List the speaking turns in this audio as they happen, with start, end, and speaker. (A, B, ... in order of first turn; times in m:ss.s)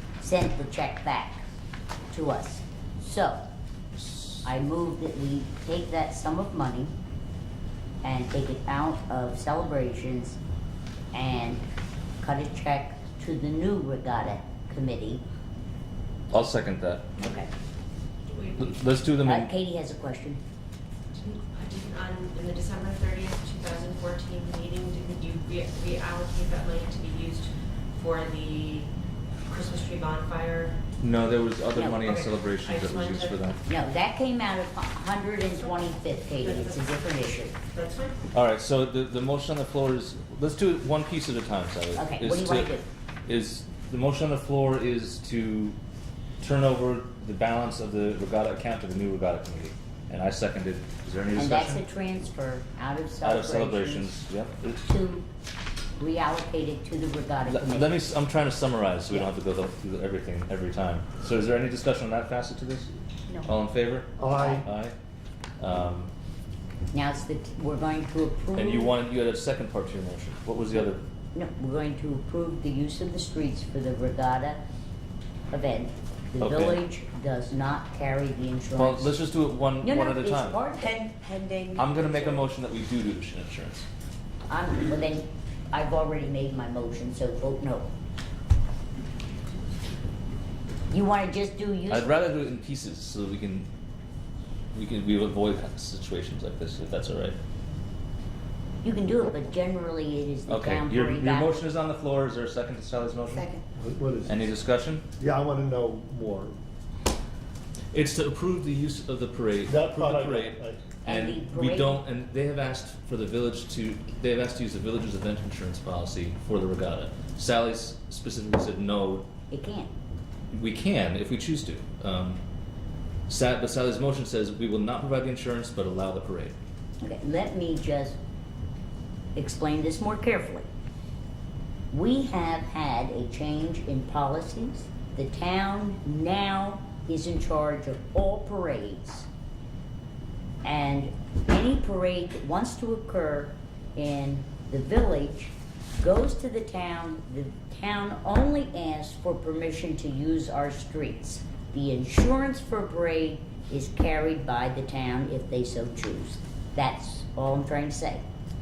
0:00.2-0:01.4 A
0:02.1-0:03.4 A
0:04.0-0:04.4 B
0:04.4-0:06.9 A
0:08.0-0:10.4 A
0:11.1-0:11.6 A
0:12.2-0:15.2 A
0:16.3-0:17.1 B
0:17.2-0:17.5 A
0:18.3-0:18.7 C
0:18.6-0:19.5 B
0:19.2-0:20.4 A
0:21.2-0:28.9 C
0:29.4-0:30.8 C
0:31.0-0:33.6 B
0:31.7-0:32.0 A
0:32.0-0:33.5 C
0:33.6-0:37.5 A
0:35.4-0:36.9 C
0:37.7-0:38.2 C
0:38.3-0:42.7 B
0:41.9-0:42.8 A
0:43.2-0:45.8 B
0:46.4-0:51.8 B
0:51.3-0:54.2 A
0:53.2-0:54.8 B
0:54.8-0:55.2 A
0:56.0-0:58.0 A
0:57.4-1:02.9 B
1:03.4-1:04.9 B
1:04.2-1:04.7 D
1:04.2-1:04.6 A
1:05.6-1:06.1 B
1:06.9-1:09.0 A
1:08.5-1:11.0 B
1:11.3-1:14.6 A
1:15.5-1:19.1 A
1:16.4-1:16.8 B
1:18.7-1:20.6 B
1:19.8-1:22.4 A
1:21.8-1:23.9 B
1:24.5-1:27.9 A
1:30.9-1:32.1 A
1:31.9-1:33.7 B
1:34.7-1:37.4 B
1:38.8-1:41.6 A
1:40.5-1:43.5 B
1:43.8-1:44.4 D
1:44.2-1:45.0 B
1:45.2-1:46.6 D
1:47.9-1:59.3 B
1:49.6-1:50.8 D
1:51.0-1:52.0 A
1:59.5-1:59.9 A
2:00.5-2:02.4 B
2:03.3-2:06.5 B
2:07.0-2:08.2 A
2:09.4-2:10.7 A
2:11.9-2:19.3 A
2:20.6-2:38.2 A